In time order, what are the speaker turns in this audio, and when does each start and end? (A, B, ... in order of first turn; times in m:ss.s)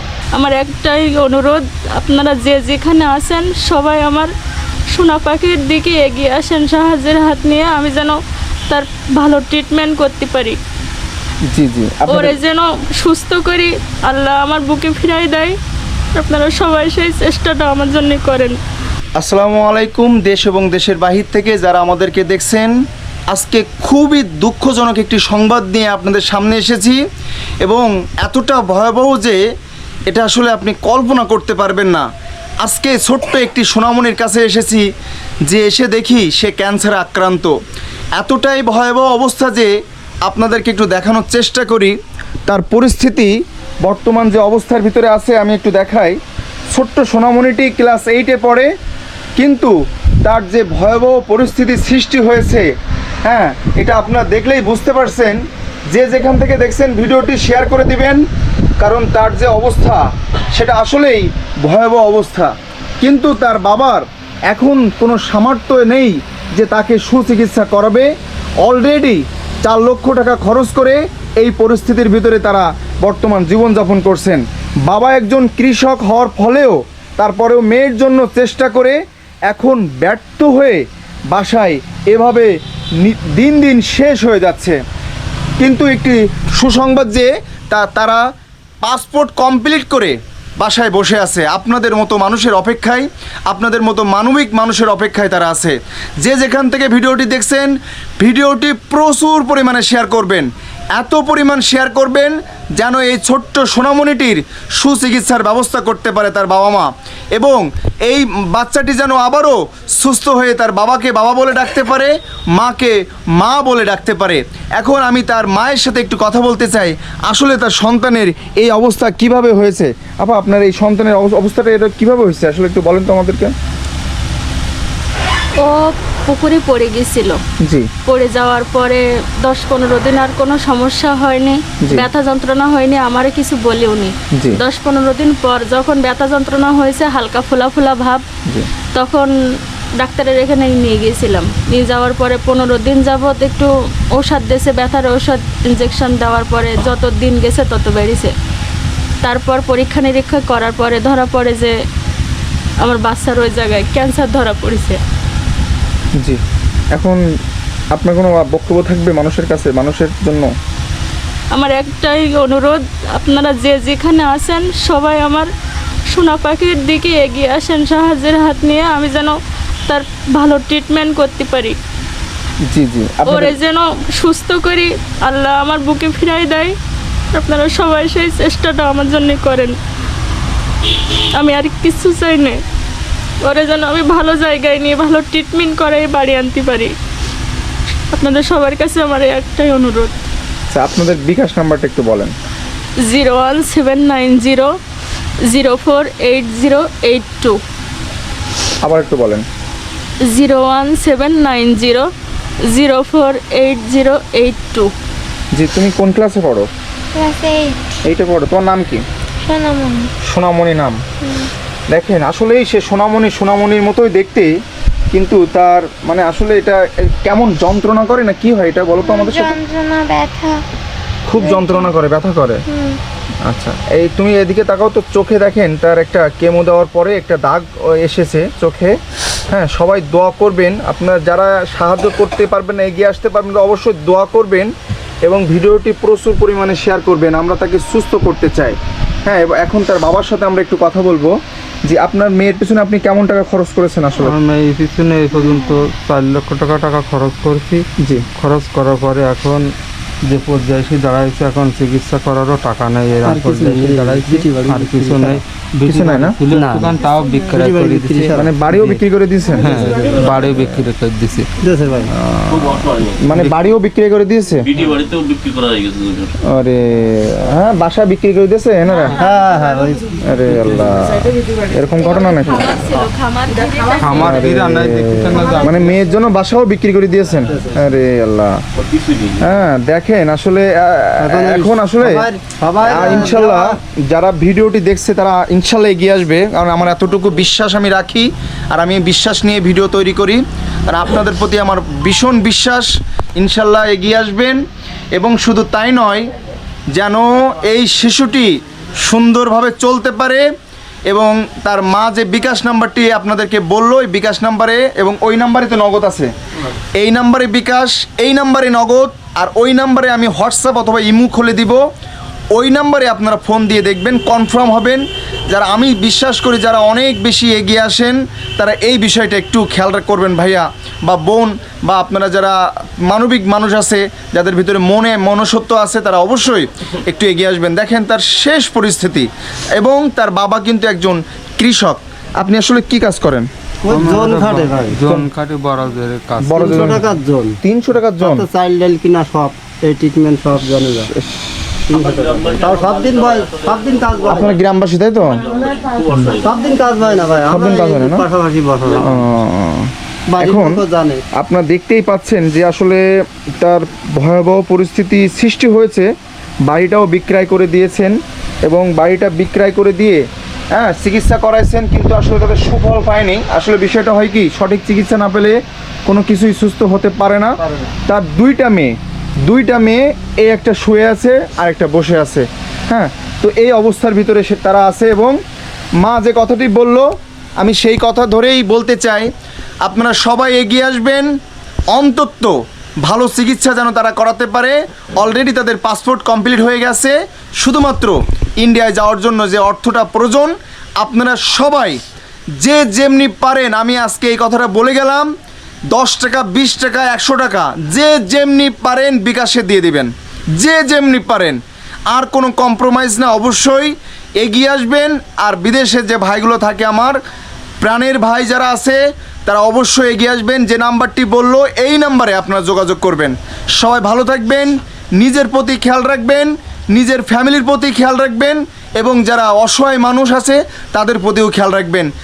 0:00.4-0:04.3 A
0:04.9-0:08.2 A
0:08.7-0:10.6 A
0:11.5-0:12.4 B
0:12.1-0:15.6 A
0:16.2-0:18.6 A
0:19.2-0:22.8 B
0:23.3-0:27.0 B
0:27.6-0:29.4 B
0:30.1-0:32.1 B
0:32.6-0:34.9 B
0:35.4-0:37.6 B
0:38.2-0:39.7 B
0:40.2-0:42.0 B
0:42.5-0:43.3 B
0:43.8-0:46.2 B
0:46.7-0:48.7 B
0:49.4-0:49.7 B
0:50.2-0:52.7 B
0:53.2-0:58.2 B
0:58.8-1:08.1 B
1:08.6-1:19.0 B
1:19.5-1:24.8 B
1:25.6-1:28.2 B
1:28.8-2:03.5 B
2:05.6-2:07.4 A
2:07.6-2:07.9 B
2:08.0-2:18.2 A
2:18.9-2:19.3 A
2:20.0-2:28.3 A
2:29.2-2:31.7 A
2:32.8-2:35.0 A
2:37.0-2:37.2 B
2:37.9-2:40.5 B
2:41.5-2:45.5 A
2:46.1-2:49.4 A
2:49.9-2:51.8 A
2:52.7-2:53.5 B
2:53.3-2:56.8 A
2:57.3-2:59.8 A
3:01.4-3:02.6 A
3:03.4-3:06.9 A
3:08.1-3:10.2 A
3:10.7-3:12.3 B
3:13.0-3:14.7 A
3:15.5-3:17.6 A
3:18.8-3:19.4 B
3:20.2-3:22.1 A
3:22.7-3:24.9 A
3:25.5-3:26.7 B
3:27.1-3:27.8 C
3:28.0-3:29.0 B
3:29.4-3:30.1 C
3:30.3-3:31.0 B
3:31.2-3:31.5 C
3:31.9-3:34.5 B
3:35.1-3:39.6 B
3:39.0-3:40.6 C
3:41.3-3:42.6 B
3:41.4-3:41.9 C
3:42.7-3:43.0 C
3:43.4-3:49.0 B
3:49.5-3:54.7 B
3:55.2-4:04.4 B
4:04.2-4:09.7 D
4:08.0-4:08.3 B
4:10.2-4:18.4 D
4:13.2-4:15.4 E
4:15.9-4:16.4 B
4:16.5-4:17.0 E
4:17.5-4:19.0 E
4:18.4-4:19.9 B
4:19.6-4:21.5 D
4:21.6-4:22.1 E
4:22.1-4:23.6 D
4:22.5-4:23.2 F
4:23.2-4:24.7 B
4:24.7-4:26.3 F
4:26.5-4:29.2 B
4:29.1-4:30.9 E
4:30.2-4:32.8 B
4:32.1-4:34.5 A
4:34.0-4:36.0 D
4:34.1-4:38.6 B
4:37.5-4:37.9 E
4:38.8-4:39.4 F
4:39.4-4:42.3 B
4:41.2-4:43.8 E
4:42.9-4:54.6 B
4:55.1-4:56.3 B
4:56.9-5:00.4 B
5:01.1-5:06.3 B
5:07.0-5:11.8 B
5:12.6-5:33.5 B
5:33.8-5:35.3 E
5:33.9-5:37.1 D
5:36.4-5:37.0 B
5:36.6-5:37.6 E
5:37.6-5:38.5 B
5:38.2-5:41.1 E
5:41.2-5:41.6 B
5:41.9-5:44.6 E
5:42.0-5:44.5 F
5:44.3-5:45.4 B
5:45.4-5:46.6 F
5:46.2-5:49.2 E
5:47.1-5:47.5 F
5:47.5-5:48.3 B
5:49.0-5:50.8 B
5:50.3-5:51.2 E
5:51.4-5:53.0 B
5:53.6-5:56.1 B
5:56.6-6:08.9 B
6:09.4-6:15.4 B
6:16.0-6:17.1 B
6:17.6-6:19.3 B
6:19.8-6:21.3 B
6:21.9-6:32.0 B
6:32.6-6:35.3 B
6:35.9-6:41.6 B
6:42.1-6:47.2 B
6:47.8-7:02.1 B